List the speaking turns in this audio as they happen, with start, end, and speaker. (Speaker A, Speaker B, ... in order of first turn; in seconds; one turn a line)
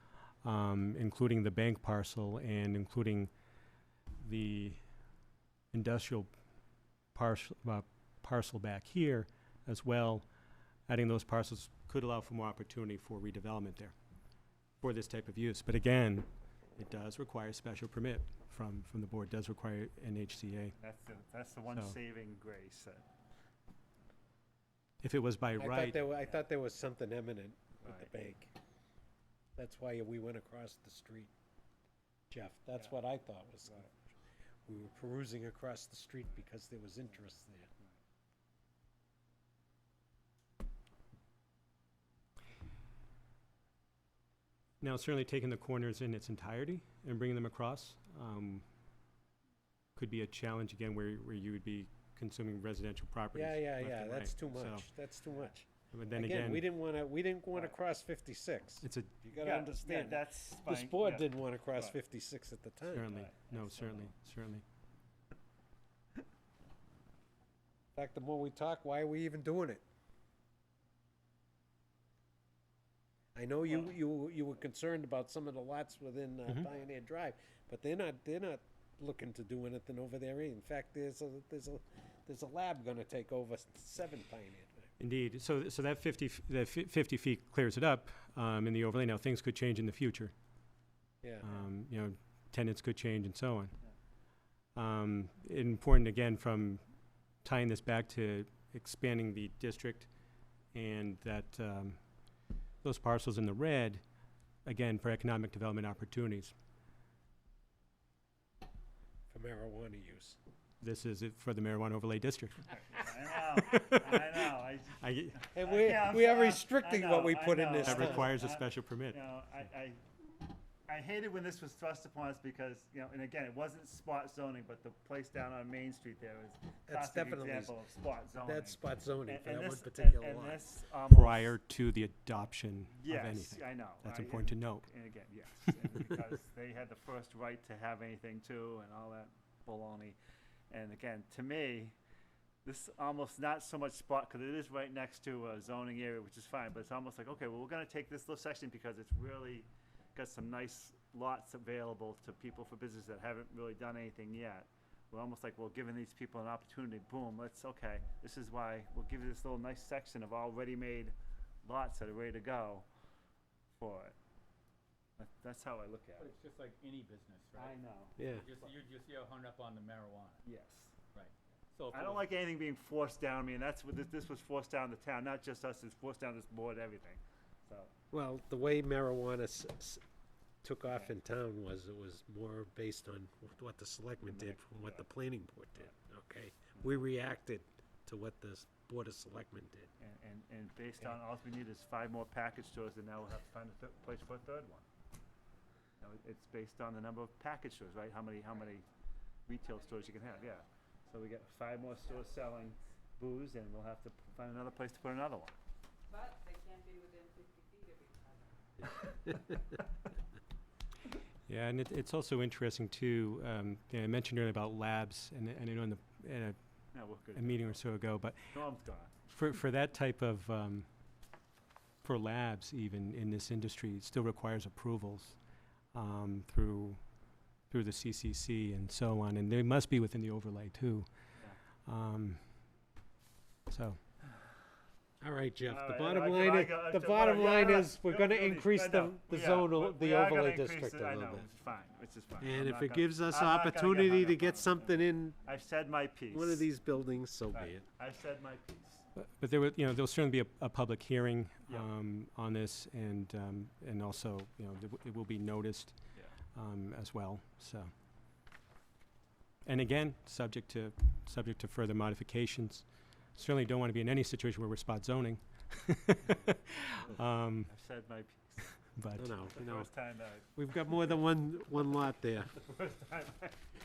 Speaker A: 0.4-3.3
Speaker A: 4.2-4.8
Speaker A: 5.7-6.3
Speaker A: 7.1-10.2
Speaker A: 10.9-13.9
Speaker A: 14.8-20.8
Speaker B: 20.8-23.0
Speaker A: 25.0-26.0
Speaker C: 25.6-28.5
Speaker B: 27.8-28.1
Speaker C: 29.6-31.3
Speaker C: 32.3-34.0
Speaker C: 34.6-37.7
Speaker A: 44.8-48.6
Speaker A: 50.0-54.9
Speaker C: 53.3-63.1
Speaker A: 55.9-56.6
Speaker A: 58.8-59.1
Speaker B: 59.3-62.0
Speaker A: 62.9-64.6
Speaker B: 63.1-64.1
Speaker C: 67.9-69.8
Speaker C: 73.3-84.9
Speaker A: 85.0-90.3
Speaker A: 91.4-93.7
Speaker A: 94.7-96.8
Speaker A: 97.4-100.1
Speaker A: 100.7-102.0
Speaker A: 102.8-104.0
Speaker A: 104.7-106.5
Speaker C: 109.3-110.4
Speaker A: 110.8-112.7
Speaker B: 112.7-120.0
Speaker A: 113.6-114.2
Speaker A: 115.0-115.4
Speaker C: 115.5-118.3
Speaker A: 117.8-119.2
Speaker B: 120.9-131.5
Speaker C: 126.9-127.8
Speaker C: 128.4-130.6
Speaker A: 131.1-134.9
Speaker B: 133.0-140.2
Speaker B: 140.7-141.9
Speaker B: 142.6-162.9
Speaker B: 163.8-164.1
Speaker B: 165.2-166.3
Speaker D: 166.2-170.4
Speaker B: 167.5-168.7
Speaker C: 168.2-168.5
Speaker B: 170.4-170.9
Speaker D: 171.1-172.3
Speaker B: 171.9-177.9
Speaker C: 178.1-180.0
Speaker C: 180.6-189.9
Speaker B: 184.2-185.0
Speaker B: 186.8-187.0
Speaker B: 190.0-194.8
Speaker B: 196.0-198.8
Speaker B: 199.5-205.6
Speaker E: 199.8-200.3
Speaker E: 206.1-208.4
Speaker A: 211.5-216.6
Speaker B: 216.9-217.8
Speaker A: 217.2-218.5
Speaker B: 218.5-219.1
Speaker A: 219.3-220.9
Speaker A: 222.0-225.4
Speaker A: 225.9-227.0
Speaker A: 227.7-231.1
Speaker A: 231.9-232.4
Speaker A: 233.7-234.0
Speaker C: 235.2-241.5
Speaker B: 235.7-246.7
Speaker C: 242.4-245.3
Speaker C: 246.3-247.8
Speaker B: 247.5-249.0
Speaker A: 249.2-255.9
Speaker A: 256.5-257.9
Speaker A: 259.6-267.7
Speaker B: 266.3-268.8
Speaker A: 268.9-269.4
Speaker C: 269.2-269.9
Speaker B: 269.4-270.5
Speaker C: 270.6-272.5
Speaker B: 272.6-273.6